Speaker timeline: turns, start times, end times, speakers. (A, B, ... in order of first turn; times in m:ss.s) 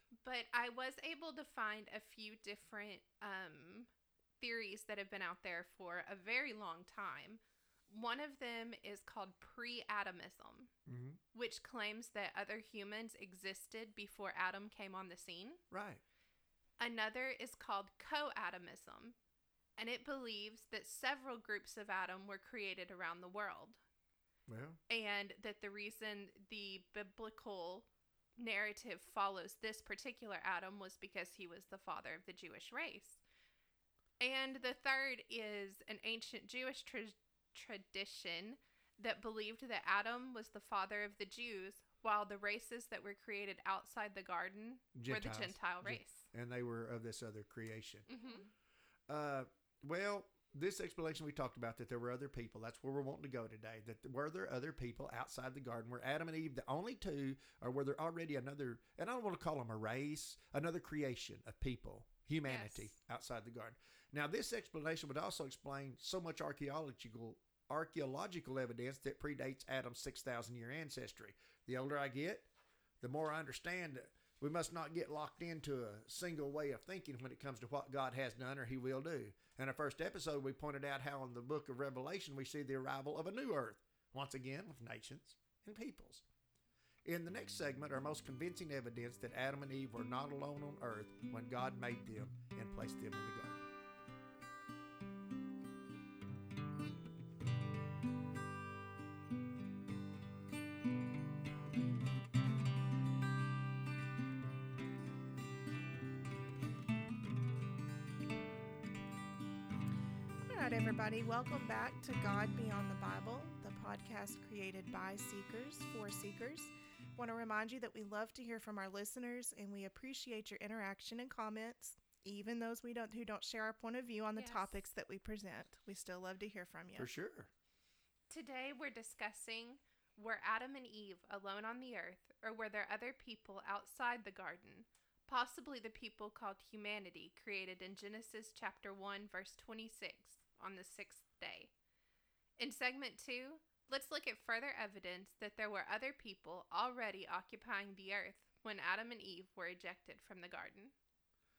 0:00.2-0:03.9 A
0:04.4-0:10.7 A
0:10.9-0:11.2 B
0:11.3-0:15.6 A
0:15.7-0:16.0 B
0:16.8-0:19.2 A
0:19.8-0:23.8 A
0:24.5-0:24.8 B
0:24.9-0:33.2 A
0:34.2-0:46.2 A
0:44.9-0:48.1 B
0:48.1-0:48.5 A
0:48.2-0:48.5 C
0:49.1-1:12.5 B
1:02.5-1:02.9 A
1:13.0-1:26.2 B
1:27.0-1:33.6 B
1:50.4-2:07.1 C
2:04.4-2:04.8 A
2:07.0-2:07.5 B
2:08.3-2:21.7 A
2:22.6-2:30.9 A